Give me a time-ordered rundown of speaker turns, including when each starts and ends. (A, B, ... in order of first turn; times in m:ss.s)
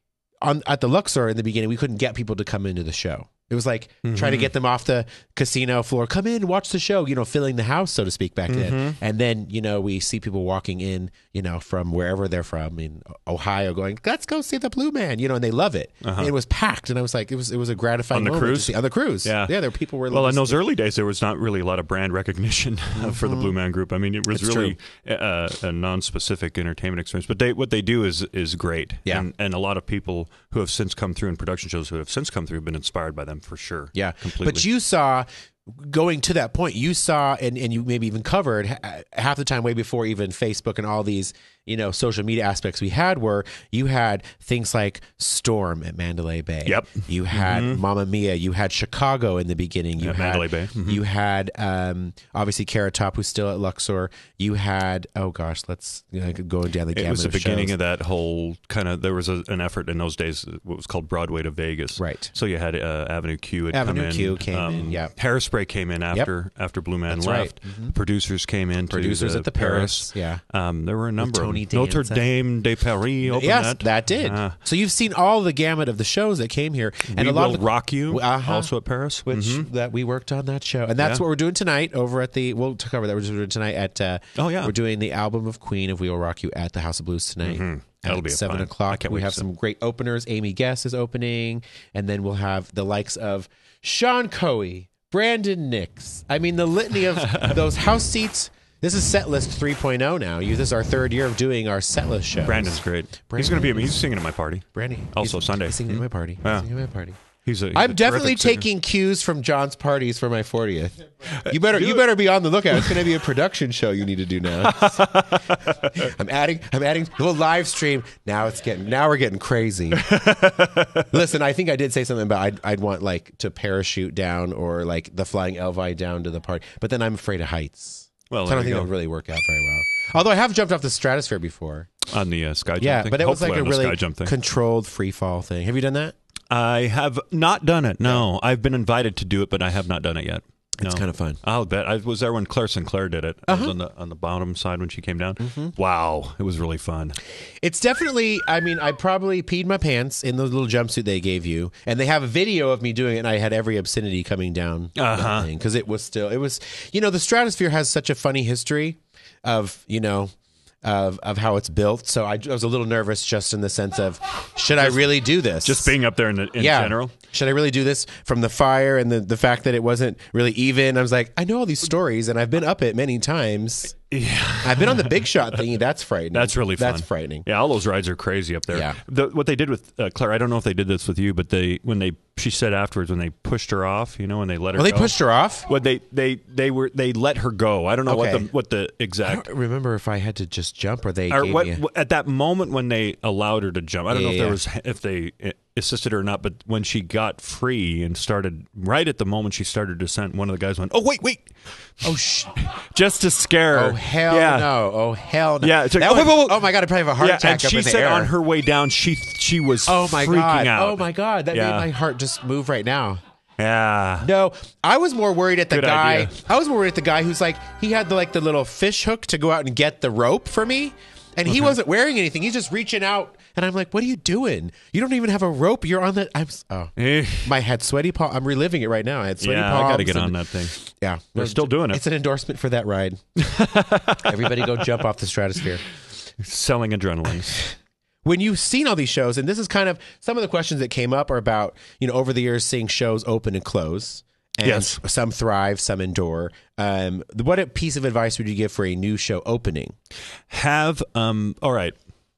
0:00.4-0:20.6 A
0:04.0-0:04.5 B
0:08.5-0:09.0 B
0:16.0-0:16.3 B
0:18.1-0:19.6 B
0:20.1-0:34.7 B
0:23.0-0:23.5 A
0:24.3-0:24.8 A
0:33.9-0:57.8 A
0:46.6-0:47.8 B
0:50.0-0:51.0 B
0:56.9-1:14.6 B
1:02.0-1:02.3 A
1:03.7-1:05.1 A
1:07.1-1:08.0 A
1:08.9-1:10.4 A
1:11.2-1:12.3 A
1:13.2-1:18.7 A
1:17.1-1:19.7 B
1:19.2-1:44.0 A
1:24.4-1:24.7 B
1:27.4-1:29.5 B
1:37.2-1:37.6 B
1:42.5-1:46.7 B
1:44.7-1:47.2 A
1:47.3-1:48.6 B
1:47.7-2:00.2 A
1:51.3-1:52.0 B
1:54.6-1:56.1 B
2:00.0-2:01.1 B
2:01.1-2:11.9 A
2:08.3-2:08.9 B
2:12.1-2:14.4 B
2:12.8-2:16.1 A
2:16.5-2:27.2 B
2:20.8-2:21.4 A
2:23.5-2:23.7 A
2:25.4-2:25.7 A
2:27.6-2:46.0 A
2:35.0-2:35.5 B
2:44.8-2:47.1 B
2:46.6-2:54.0 A
2:54.1-2:55.6 B
2:54.6-2:57.5 A
2:56.3-3:09.5 B
2:58.7-2:59.0 A
3:04.8-3:05.7 A
3:08.1-3:08.5 A
3:09.2-3:11.8 A
3:11.3-3:24.7 B
3:14.1-3:14.6 A
3:22.0-3:22.6 A
3:23.7-3:28.3 A
3:25.6-3:31.9 B
3:29.9-3:33.2 A
3:33.6-3:34.3 B
3:34.2-3:53.2 A
3:35.7-3:36.4 B
3:41.5-3:41.8 B
3:47.0-3:47.6 B
3:49.4-3:50.8 B
3:51.4-3:52.0 B
3:53.4-3:54.9 B
3:54.2-3:55.8 A
3:56.4-3:57.6 B
3:57.5-3:57.7 A
3:58.2-4:10.0 A
4:04.6-4:05.0 B
4:10.5-4:12.0 B